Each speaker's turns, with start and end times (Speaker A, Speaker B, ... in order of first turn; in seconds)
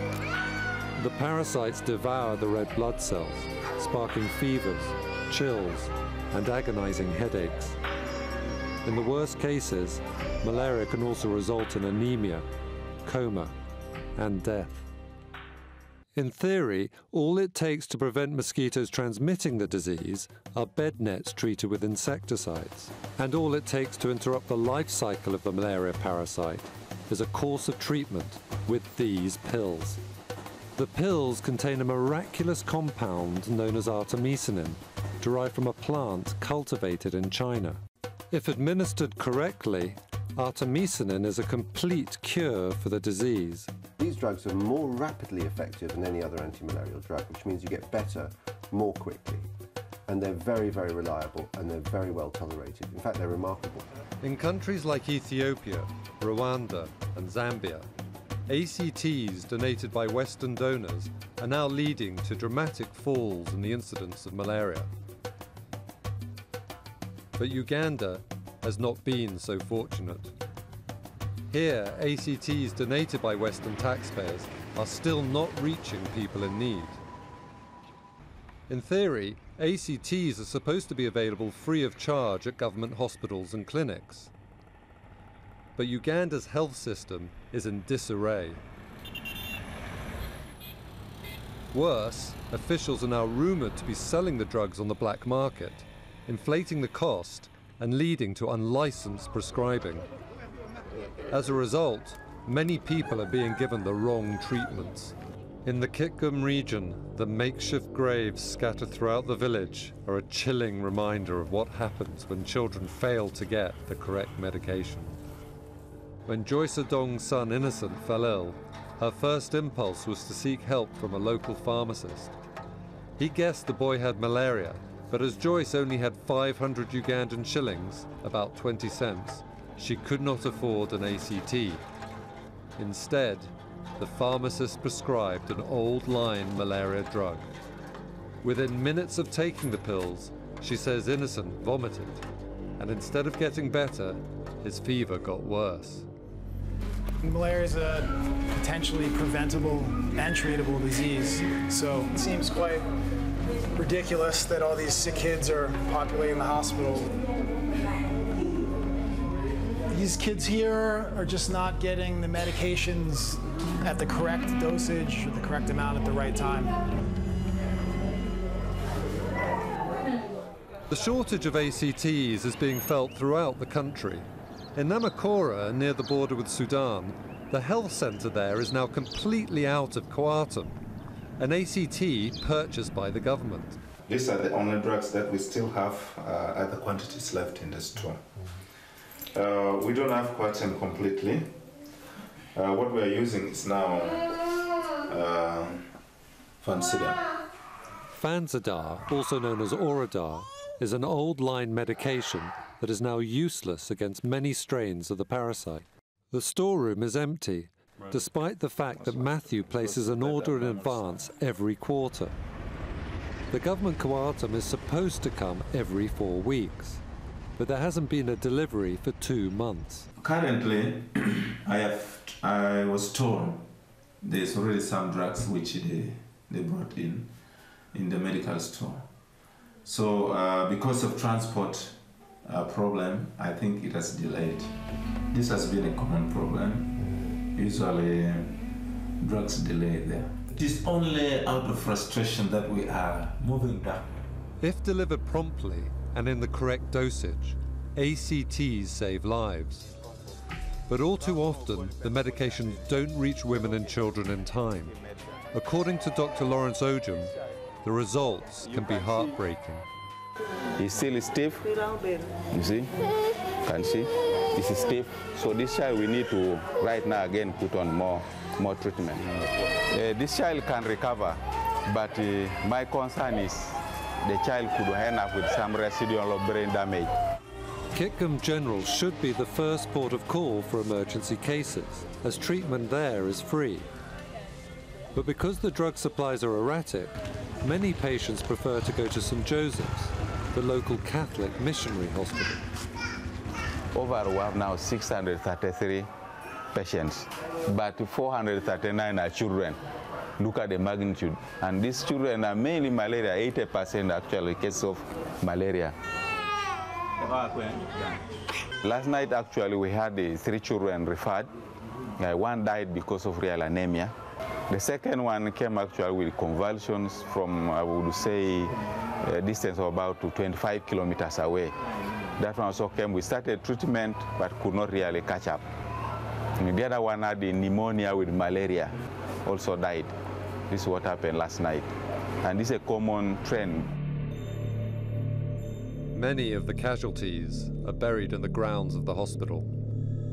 Speaker A: 1.0-7.8, 8.8-12.5, 13.1-13.5, 14.2-14.9, 16.1-30.0, 30.8-37.8, 38.3-43.7, 54.2-57.9, 58.5-64.9, 67.4-70.3, 71.5-77.0, 78.7-84.3, 85.8-88.6, 91.7-100.1, 101.3-115.2, 116.3-122.3, 123.2-131.8, 132.8-137.5, 138.4-142.2, 142.8-146.1, 170.9-180.8, 181.4-183.8, 198.1-212.3, 213.5-217.0, 217.6-220.1, 244.6-249.9, 250.9-254.9, 255.5-257.3, 257.8-259.9, 277.9-283.9, 285.1-292.6, 336.1-339.7
Speaker B: 44.0-49.5, 50.1-53.9
Speaker C: 147.2-152.9, 153.8-157.2, 159.9-166.8
Speaker D: 184.1-188.3, 189.3-191.6, 192.5-196.0, 196.6-197.3, 209.0-211.2, 220.2-223.7, 224.2-227.3, 227.9-229.1, 229.8-234.8, 235.3-238.6, 239.2-244.2
Speaker E: 260.8-261.8, 262.4-262.9, 263.6-277.1, 293.9-296.1, 296.7-299.8, 300.4-306.0, 307.3-307.8, 308.8-311.5, 312.2-314.1, 314.7-321.7, 322.4-325.6, 326.6-330.2, 330.7-331.9, 332.4-333.9